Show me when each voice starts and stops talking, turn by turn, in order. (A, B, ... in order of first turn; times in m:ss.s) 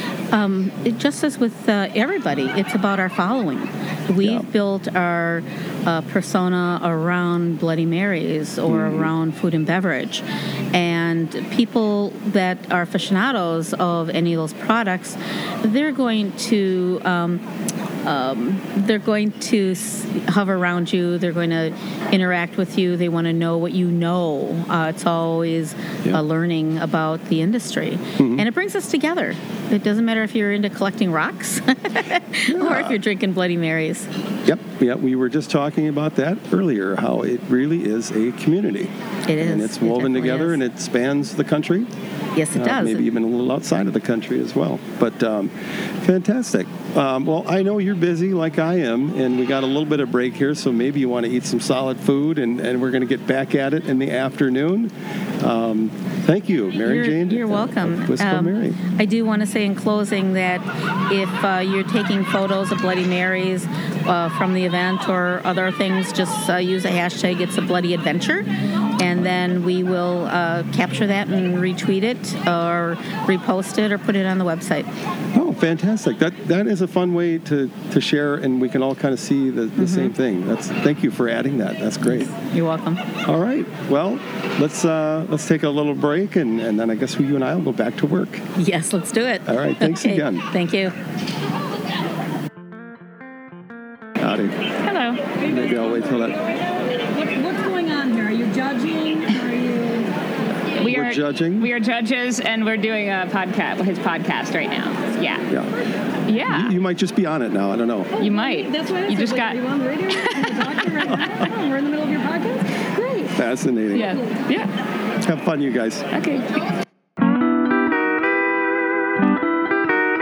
0:00.3-0:17.4 A
0:04.2-0:04.5 B
0:08.7-0:09.1 B
0:18.0-0:34.1 A
0:28.2-0:28.5 B
0:32.5-0:33.0 B
0:34.4-0:41.9 B
0:39.3-0:40.6 A
0:42.4-0:43.1 A
0:42.6-0:58.8 B
0:56.8-1:08.5 A
1:09.0-1:14.9 A
1:15.3-1:22.3 B
1:19.8-1:20.1 A
1:22.1-1:23.0 A
1:23.2-1:28.4 B
1:28.6-1:30.9 A
1:29.5-1:30.4 B
1:34.2-1:34.6 B
1:34.8-1:35.2 C
1:35.4-1:36.4 B
1:37.0-1:40.1 D
1:40.8-1:45.5 C
1:40.8-1:41.7 B
1:46.3-1:46.7 C
1:46.5-1:48.1 B
1:48.2-1:53.3 D
1:48.2-1:51.3 C
1:53.3-1:54.2 B
1:53.9-1:54.7 C
1:54.0-1:54.4 D
1:55.2-1:56.1 B
1:56.1-1:56.5 C